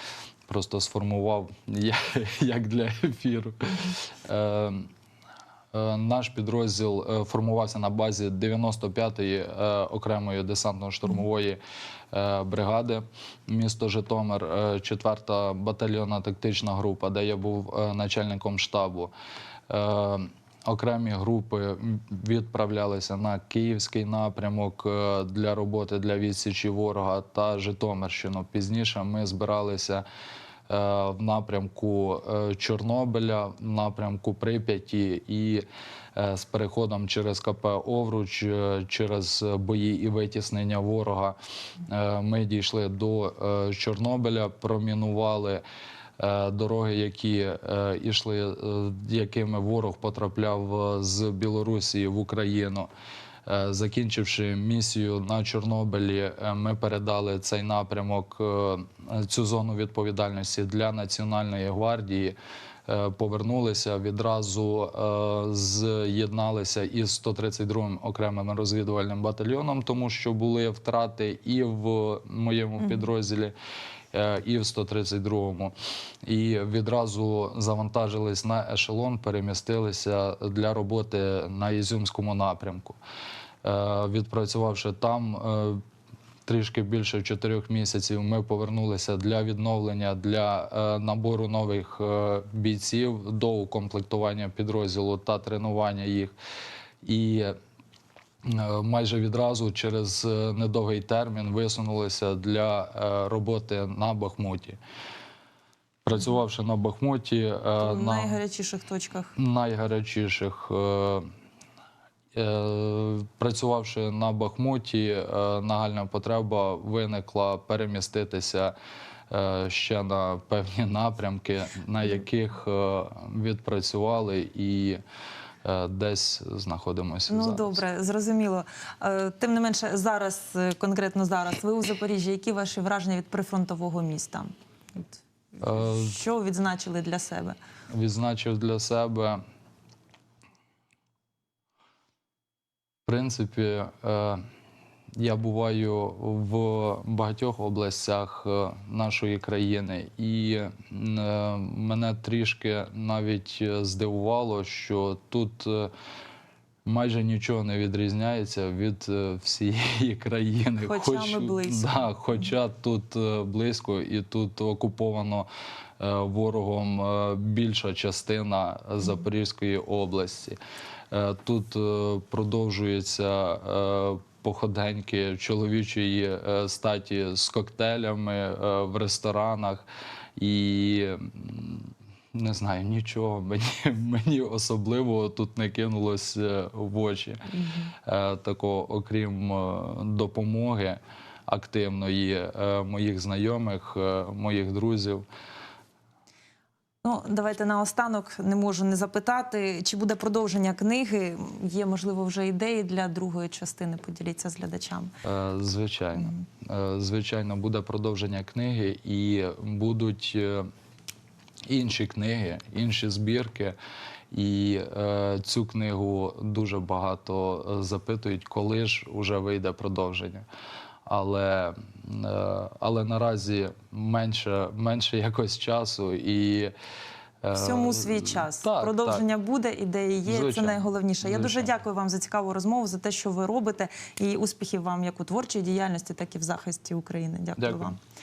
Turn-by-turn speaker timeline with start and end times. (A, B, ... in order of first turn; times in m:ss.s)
0:00.5-0:04.9 A
0:05.7-0:11.6 A
0:12.1-0:19.1 A
0:19.7-0:30.0 A
0:30.7-0:45.6 A
0:46.2-0:52.9 A
0:53.5-1:02.4 A
1:02.9-1:13.5 A
1:14.1-1:23.0 A
1:23.6-1:25.8 A
1:26.5-1:36.3 A
1:37.0-1:37.6 A
1:38.4-1:44.8 A
1:46.0-1:48.4 A
1:47.8-1:49.4 B
1:49.4-1:51.3 A
1:52.3-1:58.8 A
1:59.3-2:05.0 A
2:05.6-2:07.8 A
2:07.3-2:17.6 B
2:15.6-2:16.2 A
2:17.9-2:19.4 A
2:23.1-2:24.4 A
2:25.2-2:35.9 A
2:36.9-2:45.5 A
2:40.8-2:42.1 B
2:46.0-2:50.6 A
2:51.1-2:59.8 A
3:00.4-3:07.4 A
3:08.0-3:15.3 A
3:17.0-3:25.1 B
3:25.2-3:30.7 A
3:31.7-3:33.8 A
3:34.3-3:40.4 A
3:41.1-3:46.7 A
3:47.4-3:49.2 A
3:47.5-3:58.0 B
3:50.3-3:51.7 A
3:57.6-3:57.9 A